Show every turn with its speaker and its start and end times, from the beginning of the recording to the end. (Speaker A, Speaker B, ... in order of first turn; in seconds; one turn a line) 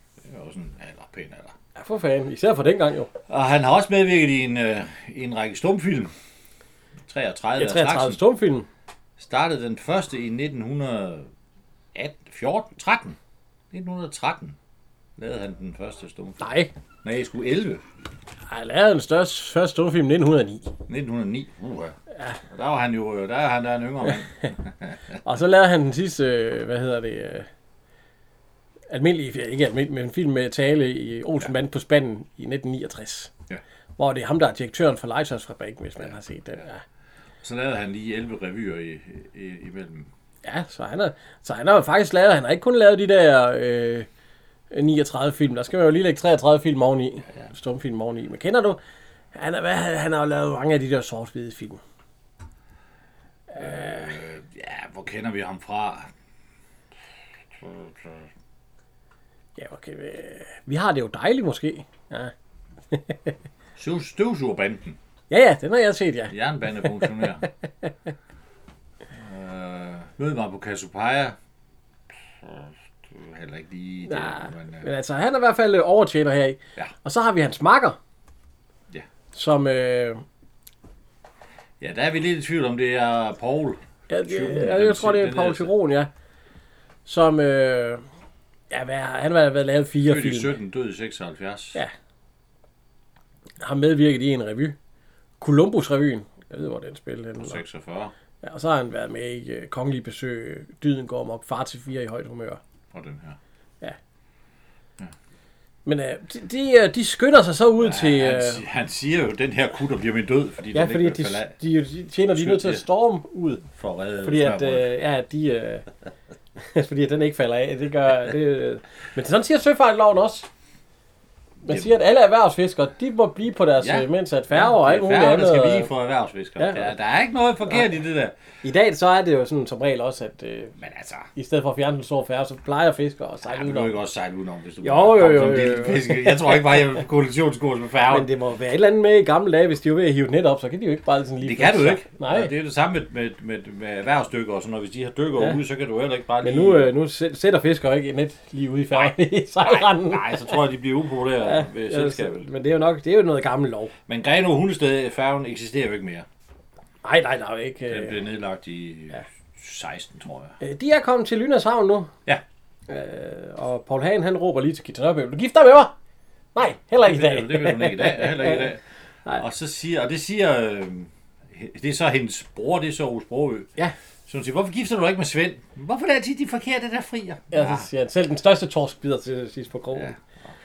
Speaker A: 0.2-1.5
Speaker B: 1.8-3.1
Speaker A: 3.3-6.1
Speaker A: 7.1-8.2
Speaker B: 7.6-8.7
Speaker A: 9.2-11.3
Speaker A: 11.9-13.2
Speaker A: 13.7-14.6
Speaker A: 15.2-17.8
Speaker B: 16.4-16.7
Speaker B: 18.5-20.7
Speaker A: 20.9-21.9
Speaker A: 22.5-25.2
Speaker B: 25.2-27.5
Speaker B: 28.9-33.3
Speaker B: 34.0-36.8
Speaker A: 37.4-40.1
Speaker B: 40.4-44.1
Speaker B: 44.7-48.8
Speaker B: 49.3-51.8
Speaker B: 53.5-54.1
Speaker A: 53.5-56.1
Speaker A: 57.5-58.3
Speaker B: 59.5-62.3
Speaker B: 62.9-63.3
Speaker A: 63.8-65.0
Speaker B: 65.3-66.3
Speaker A: 66.3-67.5
Speaker B: 66.9-67.9
Speaker A: 69.1-71.4
Speaker A: 72.4-74.9
Speaker B: 74.1-78.0
Speaker B: 79.3-80.2
Speaker A: 81.8-85.7
Speaker B: 84.1-86.1
Speaker B: 87.0-88.0
Speaker B: 88.7-90.5
Speaker A: 90.0-91.8
Speaker B: 93.6-94.8
Speaker B: 95.4-97.6
Speaker A: 97.4-98.1
Speaker B: 98.4-102.6
Speaker A: 102.9-103.4
Speaker B: 105.8-108.6
Speaker A: 107.8-111.5
Speaker B: 110.7-113.6
Speaker A: 112.3-112.8
Speaker A: 113.7-114.9
Speaker B: 114.2-115.8
Speaker B: 116.6-120.5
Speaker A: 121.6-121.9
Speaker B: 121.6-125.9
Speaker A: 123.8-128.3
Speaker B: 126.6-126.9
Speaker B: 128.6-130.7
Speaker A: 130.8-131.3
Speaker B: 131.3-134.0
Speaker A: 133.4-138.3
Speaker B: 134.8-136.6
Speaker B: 138.1-142.5
Speaker A: 141.4-146.9
Speaker B: 146.4-150.5
Speaker A: 148.9-152.5
Speaker B: 151.4-153.9
Speaker A: 154.1-156.3
Speaker B: 157.0-158.2
Speaker A: 157.9-160.6
Speaker B: 160.6-162.1
Speaker B: 162.9-165.9
Speaker B: 166.5-168.7
Speaker A: 167.0-168.8
Speaker A: 169.4-173.7
Speaker A: 174.3-177.9
Speaker B: 177.5-180.1
Speaker A: 179.9-180.5